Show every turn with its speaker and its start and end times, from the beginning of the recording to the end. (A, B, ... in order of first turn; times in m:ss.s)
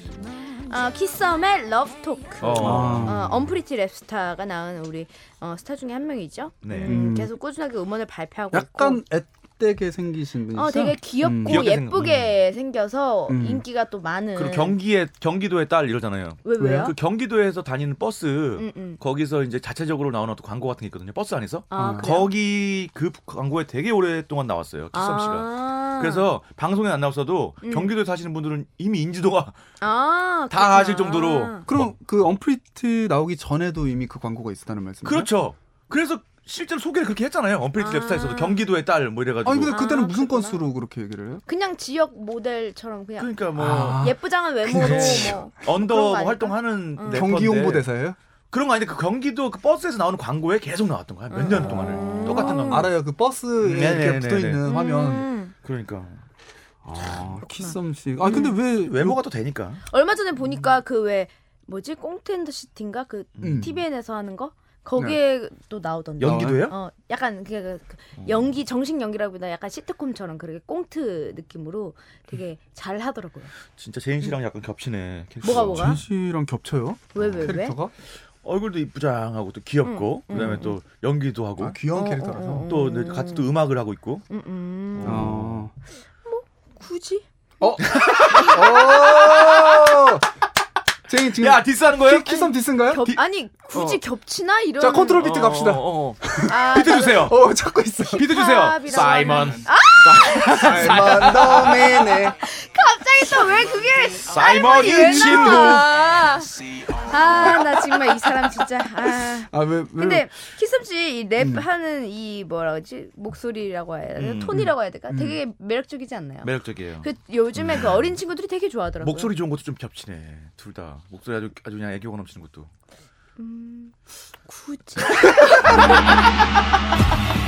0:00.6-0:09.0 A
0:02.4-0:03.2 B
0:02.6-0:03.4 C
0:06.6-0:07.0 B
0:06.8-0:07.3 C
0:08.5-0:11.7 C
0:10.5-0:14.8 A
0:11.4-0:12.3 B
0:13.3-0:13.6 C
0:14.4-0:29.6 B
0:16.4-0:16.9 A
0:16.6-0:16.9 C
0:18.6-0:19.0 A
0:21.7-0:22.3 A
0:21.8-0:22.1 C
0:24.9-0:26.3 A
0:27.6-0:27.9 A
0:29.8-0:31.7 A
0:30.5-0:31.9 B
0:31.7-0:35.3 C
0:35.0-0:39.8 B
0:37.8-0:38.6 A
0:39.4-0:41.4 C
0:39.7-0:40.6 A
0:41.4-0:47.4 A
0:43.2-0:44.1 B
0:43.6-0:45.4 C
0:44.7-0:47.9 B
0:47.1-0:48.2 C
0:48.5-0:52.9 B
0:51.3-0:52.9 A
0:51.5-0:55.3 C
0:53.6-0:54.7 B
0:54.6-0:55.5 A
0:55.6-0:56.2 B
0:56.8-0:59.2 C
0:57.4-0:58.6 A
0:58.2-0:59.8 B
0:59.9-1:13.5 A
1:03.4-1:03.7 B
1:03.4-1:03.8 C
1:06.2-1:06.8 B
1:06.2-1:06.7 C
1:08.2-1:08.4 B
1:13.7-1:16.0 B
1:15.4-1:16.0 A
1:15.6-1:17.9 C
1:17.1-1:17.8 A
1:18.4-1:21.8 B
1:19.8-1:20.8 A
1:20.3-1:20.6 C
1:21.6-1:22.7 C
1:21.9-1:23.5 A
1:22.6-1:24.2 B
1:24.3-1:25.4 A
1:24.9-1:25.6 B
1:25.0-1:25.7 C
1:26.2-1:27.2 A
1:27.6-1:30.3 C
1:27.8-1:29.3 A
1:27.8-1:30.0 B
1:31.1-1:33.1 C
1:31.3-1:32.5 B
1:32.9-1:35.2 A
1:34.8-1:38.3 C
1:35.1-1:37.4 B
1:36.4-1:37.3 A
1:38.1-1:41.9 B
1:38.2-1:41.3 A
1:40.6-1:42.4 C
1:42.4-1:59.3 A
1:44.3-1:46.0 B
1:44.9-1:45.8 C
1:49.5-1:50.3 C
1:51.4-1:51.6 C
1:54.2-1:54.7 B
1:54.5-1:55.4 C
1:56.4-1:58.2 B
1:59.0-2:02.7 B
2:03.4-2:03.9 A
2:04.4-2:05.9 A
2:05.3-2:05.9 B